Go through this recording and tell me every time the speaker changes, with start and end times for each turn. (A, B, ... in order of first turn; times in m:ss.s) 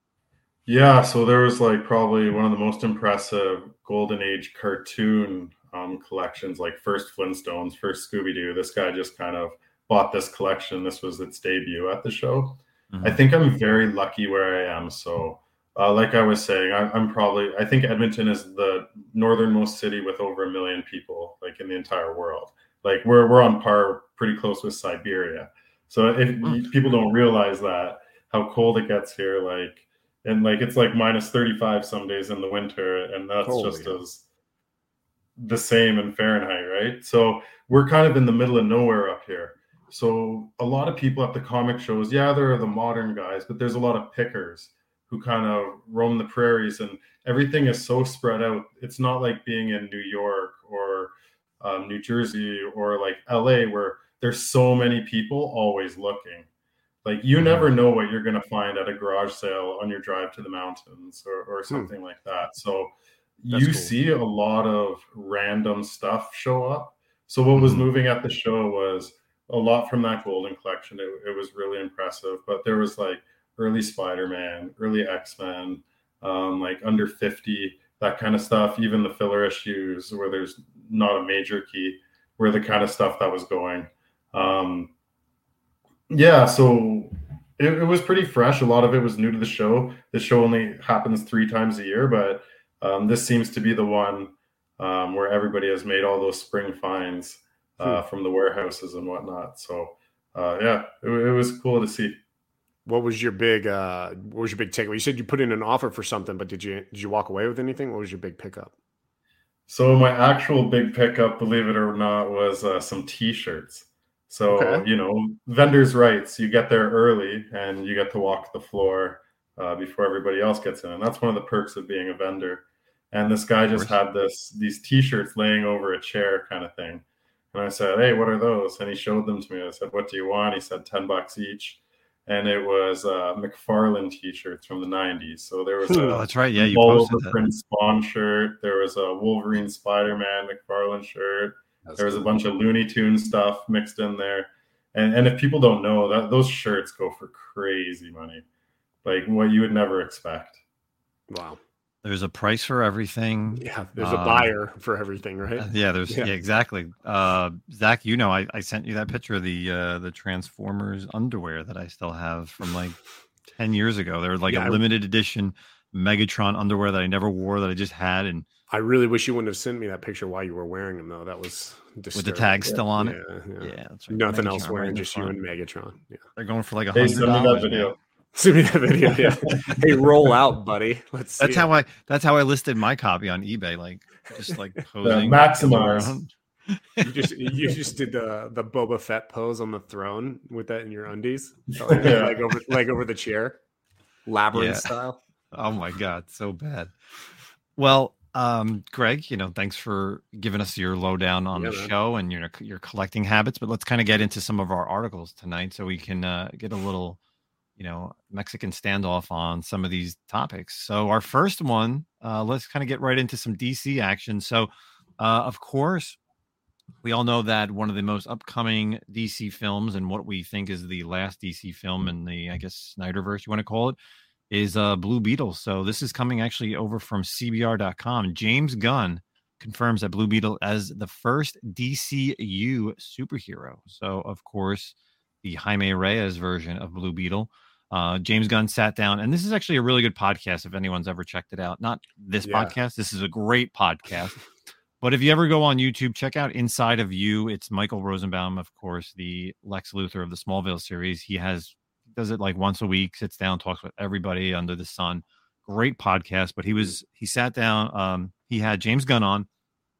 0:00.7-0:34.2 A
0:12.9-0:13.2 B
0:33.4-0:34.0 C
0:35.4-0:56.5 A
0:57.0-1:24.9 A
1:03.5-1:03.9 C
1:07.6-1:07.8 B
1:26.1-1:42.2 A
1:42.9-1:48.7 C
1:49.7-2:28.4 A
1:54.5-1:54.8 C
2:15.9-2:16.2 C
2:16.0-2:17.4 B
2:21.9-2:22.3 C
2:29.0-2:30.6 A
2:31.3-2:31.6 C
2:32.0-2:34.5 B
2:33.6-2:36.3 C
2:35.6-2:43.0 B
2:43.5-2:48.4 B
2:44.5-2:44.8 C
2:48.7-2:56.2 C
2:52.1-2:55.4 B
2:56.4-2:57.9 B
2:56.9-2:58.0 A
2:58.4-3:01.7 C
2:59.1-2:59.9 A
3:01.4-3:07.1 B
3:05.0-3:06.2 A
3:07.0-3:13.6 C
3:11.8-3:12.4 A
3:14.3-3:15.2 C
3:14.5-3:14.9 B
3:15.5-3:16.9 B
3:17.8-3:27.2 B
3:21.6-3:21.9 C
3:27.8-3:36.2 B
3:37.0-3:44.0 B
3:44.5-4:04.4 B
4:02.4-4:02.7 C
4:05.0-4:19.5 B